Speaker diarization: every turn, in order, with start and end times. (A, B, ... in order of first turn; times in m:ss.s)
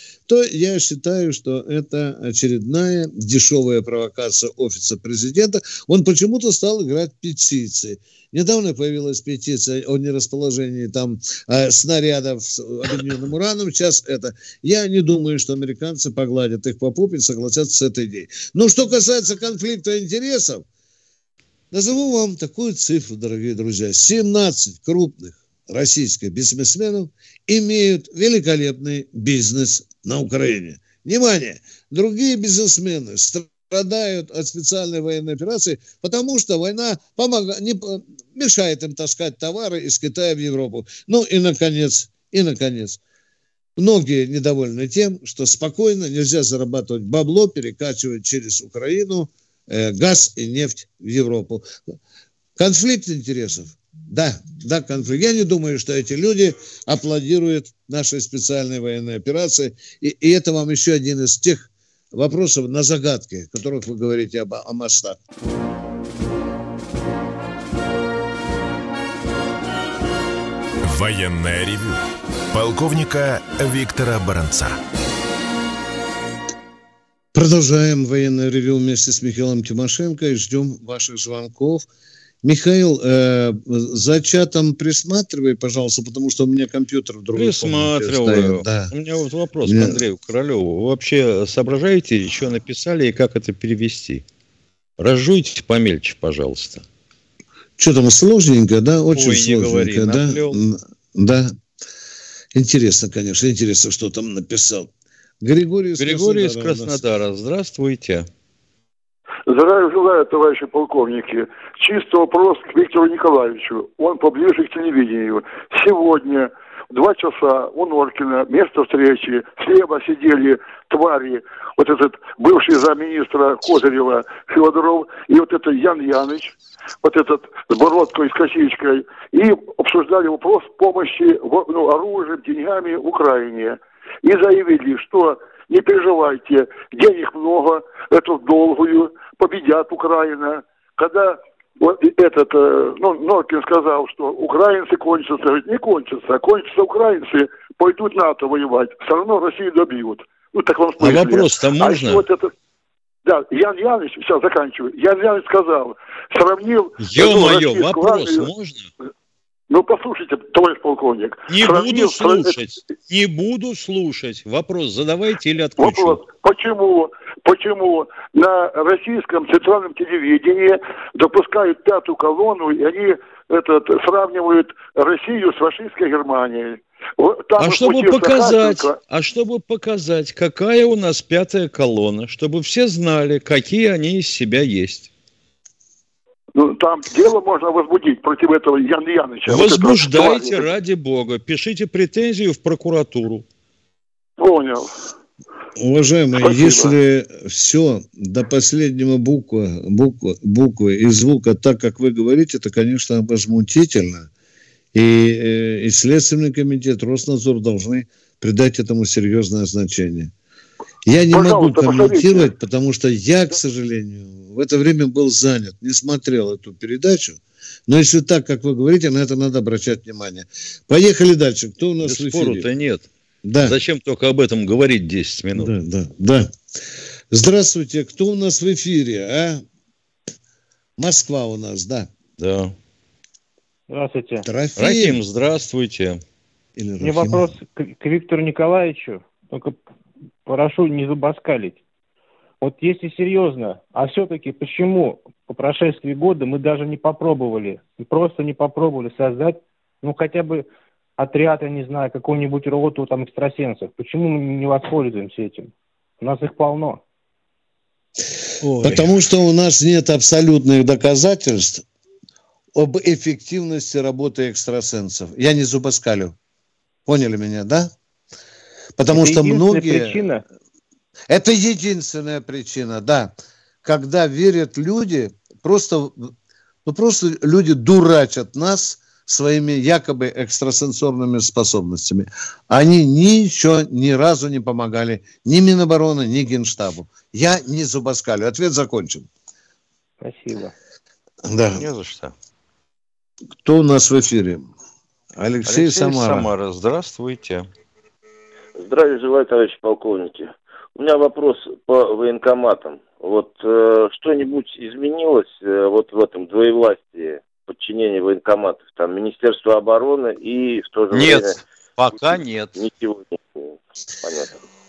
0:00.3-0:20.6 A
0:21.7-0:43.0 A
0:43.8-0:51.6 A
0:52.6-1:05.2 A
1:10.8-1:14.8 B
1:17.3-1:21.8 A
1:22.4-1:28.9 A
1:27.3-1:34.2 C
1:29.6-1:30.0 A
1:35.0-1:36.8 C
1:37.8-1:41.5 A
1:39.1-1:40.6 C
1:42.5-1:44.9 A
1:45.4-1:47.0 A
1:46.0-1:48.3 C
1:49.5-2:32.5 D
2:31.0-2:32.2 C
2:33.2-2:38.5 D
2:37.0-2:38.9 C
2:39.7-2:42.6 D
2:41.5-2:46.2 C
2:45.8-2:59.0 D
2:57.6-3:05.1 C
3:06.5-3:10.7 D
3:09.5-3:13.4 C
3:14.4-3:14.9 D
3:15.8-3:24.3 A
3:16.4-3:16.9 D
3:24.9-3:30.3 A
3:31.0-3:42.7 A
3:31.3-3:32.5 D
3:42.0-3:43.1 C
3:43.4-3:43.8 A
3:43.6-3:45.7 C
3:45.5-3:46.5 A
3:47.3-3:49.6 A
3:51.0-3:52.1 A
3:52.4-3:52.7 C
3:53.9-3:54.5 E
3:54.4-3:55.2 A
3:54.8-3:56.2 C
3:56.8-3:57.4 A
3:57.0-3:59.8 E
4:00.4-4:01.8 E
4:02.6-4:10.6 E
4:11.2-4:17.0 E
4:18.6-4:19.2 C
4:18.8-4:21.8 A
4:22.7-4:26.3 A
4:27.0-4:27.9 A
4:29.0-4:30.3 A
4:29.1-4:30.4 E
4:31.3-4:33.3 A
4:33.8-4:36.3 A
4:36.8-4:49.3 A
4:50.2-4:50.7 E
4:51.4-4:51.8 A
4:51.8-4:52.3 C
4:53.6-4:54.7 A
4:55.3-4:56.5 A
4:55.7-4:57.6 C
4:58.8-5:11.5 F
5:11.1-5:12.7 C
5:12.8-5:14.6 F